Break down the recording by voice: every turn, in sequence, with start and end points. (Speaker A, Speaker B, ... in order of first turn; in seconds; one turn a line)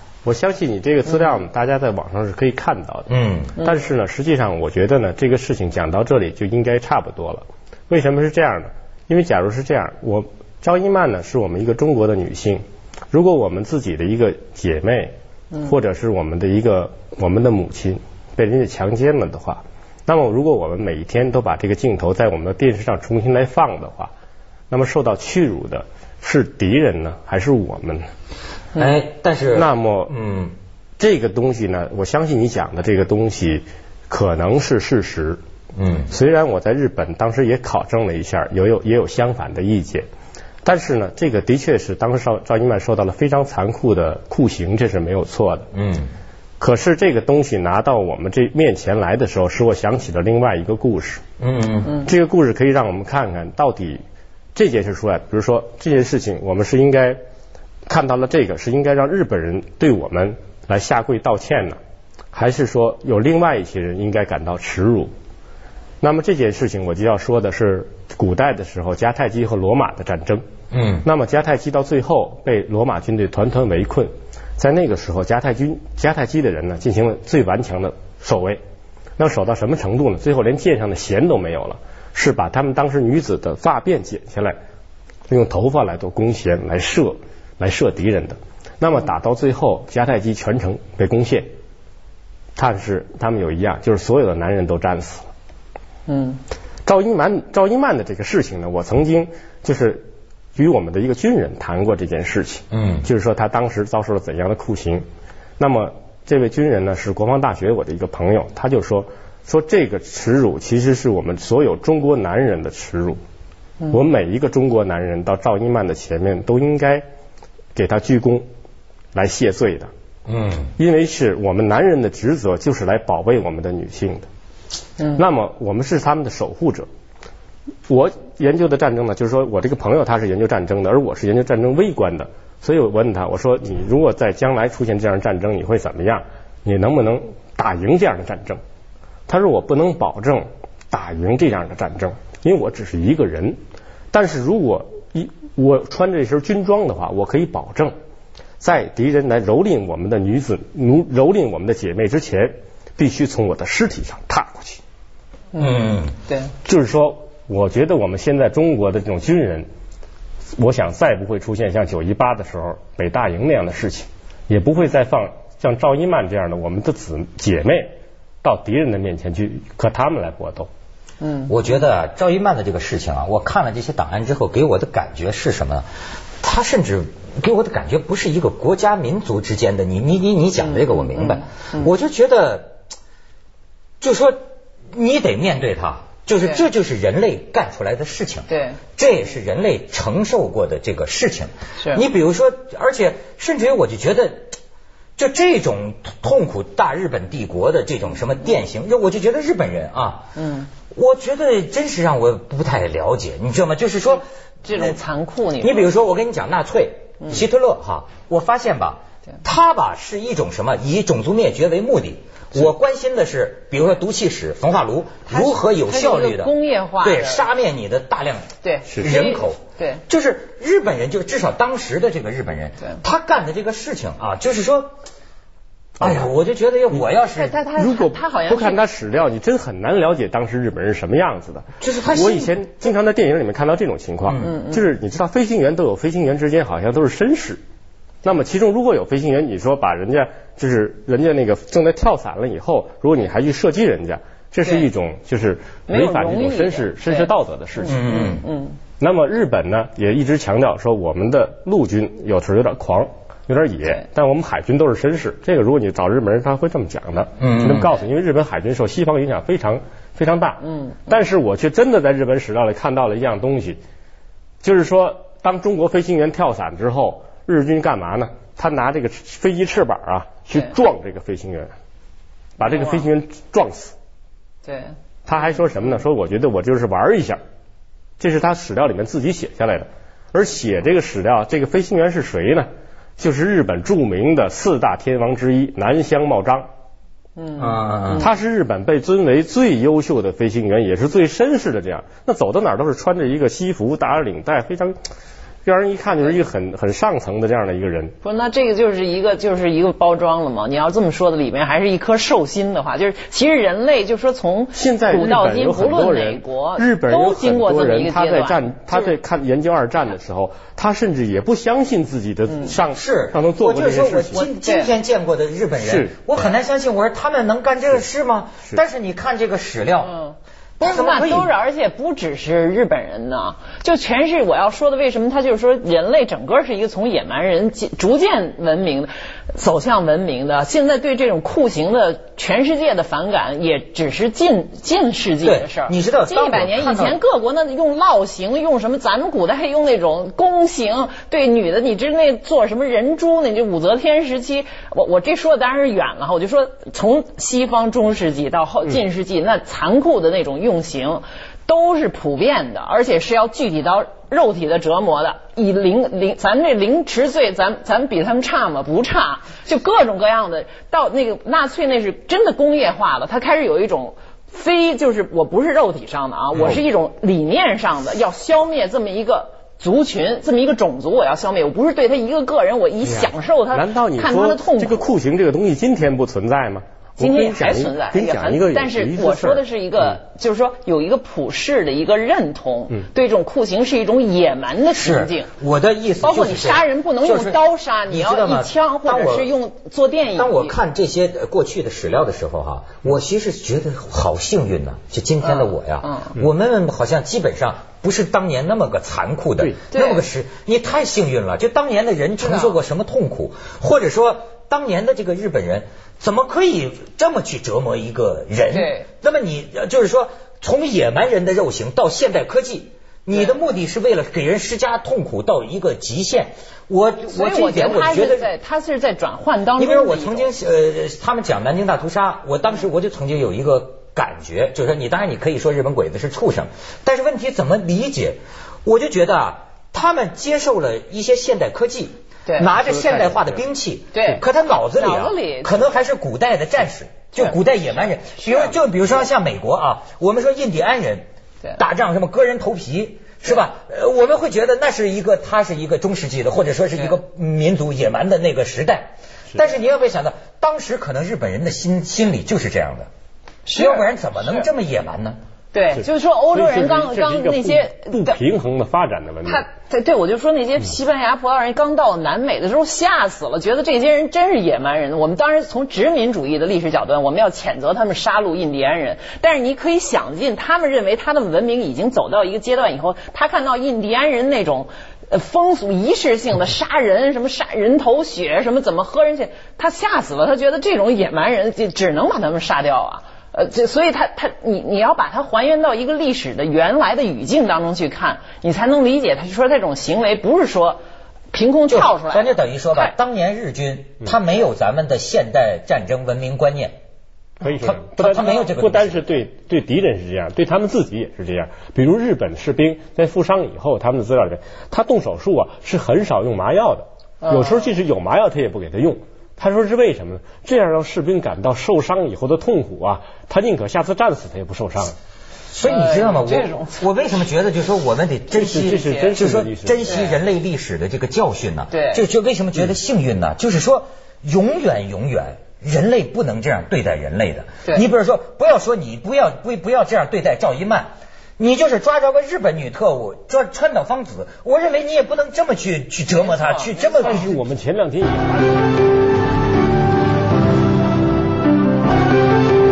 Speaker A: 0.2-24.1
Speaker B: 3.1-3.6
Speaker A: 24.7-28.1
Speaker B: 28.7-30.5
Speaker A: 29.5-30.1
Speaker A: 31.0-35.4
Speaker B: 35.7-36.1
Speaker A: 36.1-40.1
Speaker A: 40.6-45.7
Speaker B: 45.7-46.1
Speaker A: 46.6-51.2
Speaker B: 51.4-52.0
Speaker A: 52.0-54.0
Speaker A: 54.5-57.2
Speaker A: 57.9-61.8
Speaker A: 62.3-65.1
Speaker A: 66.0-70.4
Speaker B: 70.7-71.0
Speaker A: 71.0-78.6
Speaker A: 79.2-84.5
Speaker A: 85.3-91.5
Speaker A: 92.5-95.2
Speaker C: 96.1-96.4
Speaker A: 96.8-100.0
Speaker A: 100.5-105.0
Speaker B: 102.7-103.0
Speaker A: 105.6-113.2
Speaker A: 113.9-117.0
Speaker A: 117.7-118.5
Speaker A: 119.1-119.9
Speaker B: 120.3-120.7
Speaker A: 120.8-124.3
Speaker A: 125.2-126.9
Speaker A: 127.9-138.6
Speaker A: 139.3-143.6
Speaker A: 144.1-147.9
Speaker A: 148.6-154.8
Speaker C: 155.5-156.5
Speaker B: 155.6-156.1
Speaker A: 156.6-159.7
Speaker A: 160.6-170.7
Speaker C: 171.2-171.5
Speaker B: 171.5-175.9
Speaker B: 176.4-182.8
Speaker C: 181.1-181.8
Speaker B: 184.0-184.4
Speaker B: 184.9-194.5
Speaker C: 188.5-188.8
Speaker C: 191.8-192.0
Speaker B: 195.2-200.3
Speaker C: 200.3-200.7
Speaker B: 200.9-205.0
Speaker C: 204.6-205.9
Speaker B: 205.6-224.9
Speaker C: 215.3-217.4
Speaker C: 218.6-220.0
Speaker A: 226.0-226.3
Speaker B: 226.0-227.6
Speaker C: 227.3-228.8
Speaker A: 227.8-237.6
Speaker B: 231.8-232.5
Speaker B: 234.2-234.5
Speaker C: 234.4-234.8
Speaker A: 238.2-248.1
Speaker C: 245.9-247.3
Speaker C: 247.8-248.8
Speaker B: 247.8-248.4
Speaker A: 249.0-263.8
Speaker B: 257.4-257.9
Speaker C: 260.7-261.0
Speaker A: 264.6-271.7
Speaker A: 272.6-273.9
Speaker C: 272.6-273.1
Speaker C: 274.6-274.9
Speaker A: 275.2-277.4
Speaker A: 278.2-286.7
Speaker C: 287.4-288.2
Speaker B: 287.6-288.3
Speaker A: 288.2-294.9
Speaker A: 295.6-298.1
Speaker C: 298.2-309.1
Speaker A: 304.7-314.5
Speaker B: 312.9-320.1
Speaker C: 314.5-314.9
Speaker A: 315.8-316.2
Speaker C: 320.0-375.1
Speaker B: 320.8-321.5
Speaker B: 335.4-337.2
Speaker A: 373.0-379.6
Speaker C: 377.2-385.5
Speaker B: 384.9-389.5
Speaker C: 386.2-390.7
Speaker B: 390.4-418.5
Speaker C: 395.4-396.3
Speaker C: 399.9-400.2
Speaker C: 402.4-402.8
Speaker C: 408.7-409.1
Speaker C: 417.3-420.5
Speaker B: 419.8-453.1
Speaker C: 432.4-432.7
Speaker A: 433.0-433.4
Speaker C: 434.1-434.4
Speaker C: 434.9-436.0
Speaker C: 438.4-438.7
Speaker C: 453.6-454.7
Speaker B: 453.7-455.4
Speaker C: 455.7-458.4
Speaker A: 456.0-459.6
Speaker C: 459.4-491.0
Speaker C: 491.5-493.1
Speaker B: 491.9-497.0
Speaker A: 497.6-515.1
Speaker B: 497.7-499.3
Speaker C: 507.4-507.9
Speaker B: 515.7-537.5
Speaker C: 515.8-517.0
Speaker A: 518.5-520.2
Speaker C: 518.8-519.4
Speaker C: 520.0-520.4
Speaker C: 521.9-522.2
Speaker C: 536.5-537.4
Speaker A: 537.2-538.7